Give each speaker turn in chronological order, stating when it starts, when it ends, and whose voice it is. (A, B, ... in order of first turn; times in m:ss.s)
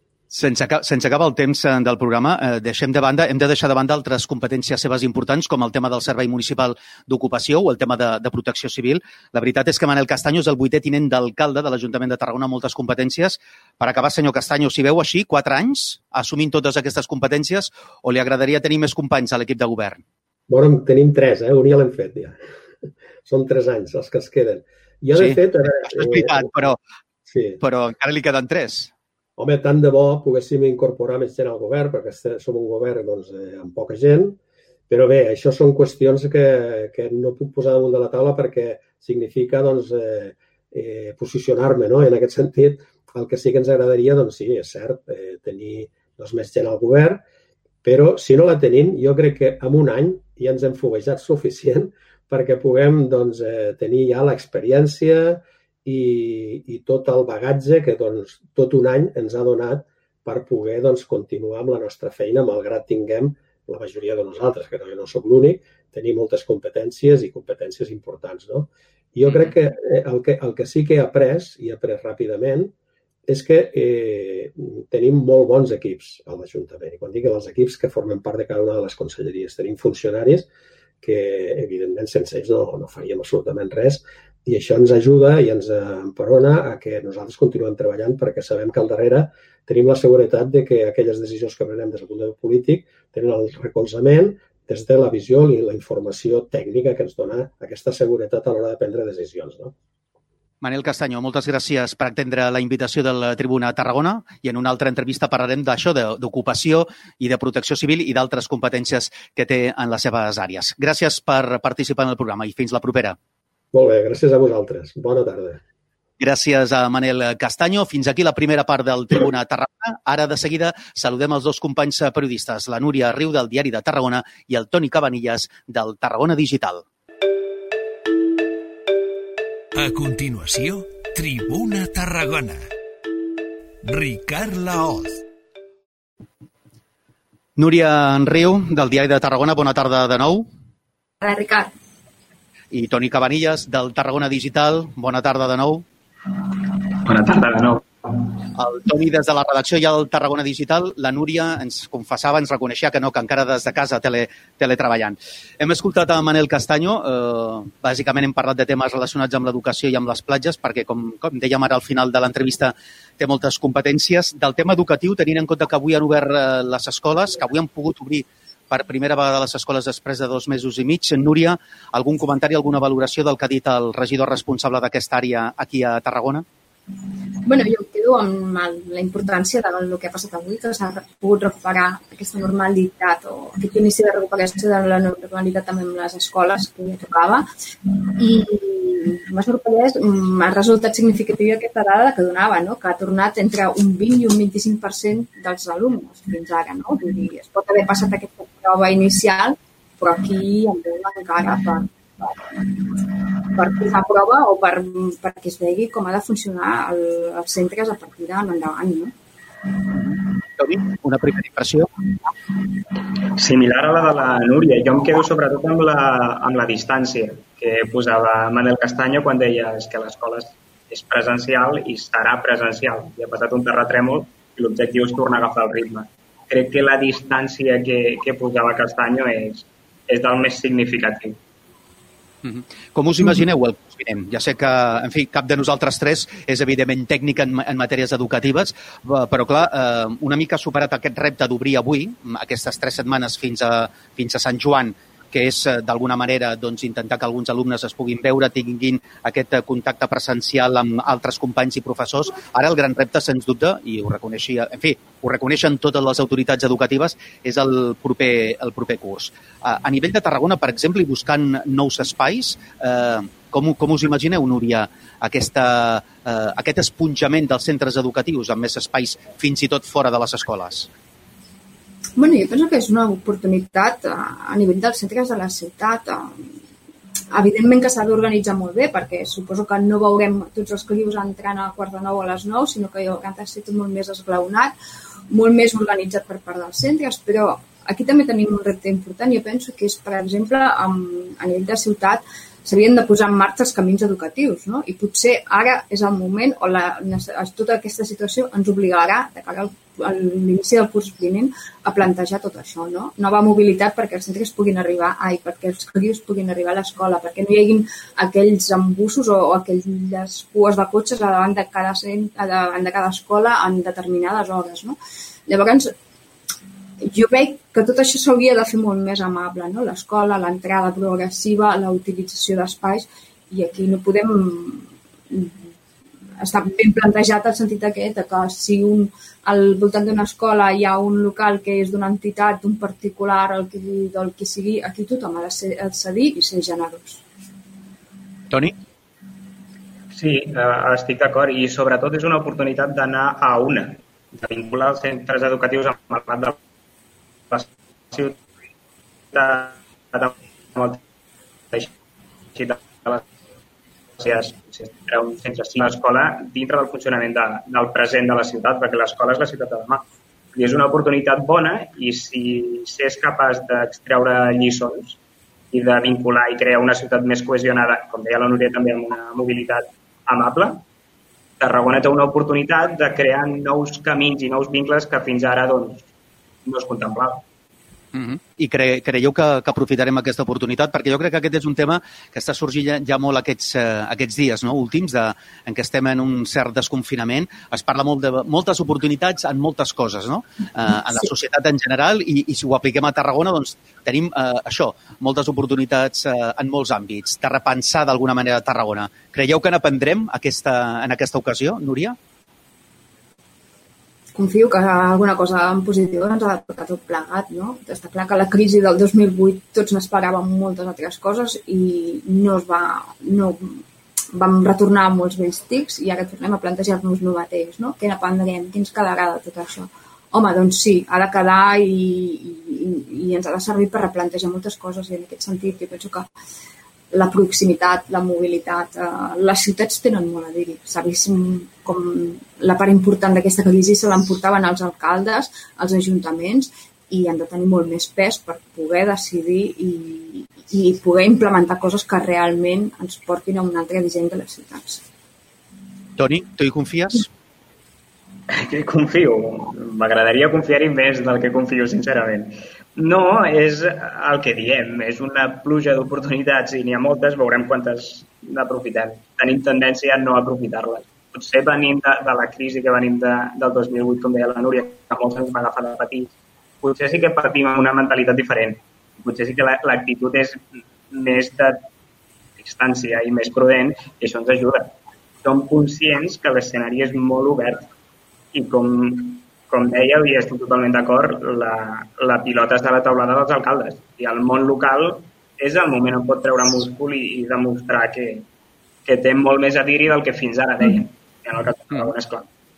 0:00.3-0:20.0 A
0:20.5-0:22.4 B
0:23.2-0:26.5 B
0:25.1-0:26.8 A
0:27.3-0:27.6 B
0:27.6-0:28.9 A
0:29.4-0:47.2 B
0:47.8-1:12.7 B
1:13.3-1:20.5 B
1:21.0-1:39.7 B
1:40.6-1:53.2 A
1:53.7-1:55.6 B
1:56.2-2:06.8 A
2:09.7-2:12.6 C
2:13.8-2:15.2 C
2:17.6-2:20.5 A
2:21.2-2:21.7 D
2:22.7-2:25.8 A
2:26.8-2:28.3 E
2:28.5-2:56.4 A
2:57.4-3:07.4 D
3:08.1-3:29.1 D
3:29.9-3:31.9 A
3:33.3-3:51.4 E
3:52.4-4:30.9 A
4:32.2-4:36.4 D
4:37.3-4:44.7 D
4:45.3-5:15.9 D
5:17.0-5:25.6 D
5:26.4-5:37.2 D
5:38.5-5:38.7 A
5:40.1-5:46.6 E
5:47.5-5:48.4 E
5:49.3-5:51.0 E
5:52.5-5:53.2 E
5:54.2-6:05.2 E
6:05.7-6:10.8 E
6:11.6-6:16.1 E
6:16.6-6:17.4 E
6:18.1-6:42.2 A
6:44.3-6:53.8 D
6:54.3-7:06.3 D
7:07.1-7:25.0 D
7:26.2-7:27.3 A
7:28.5-7:51.8 E
7:52.6-7:57.9 E
7:58.5-8:08.5 E
8:09.0-8:12.5 E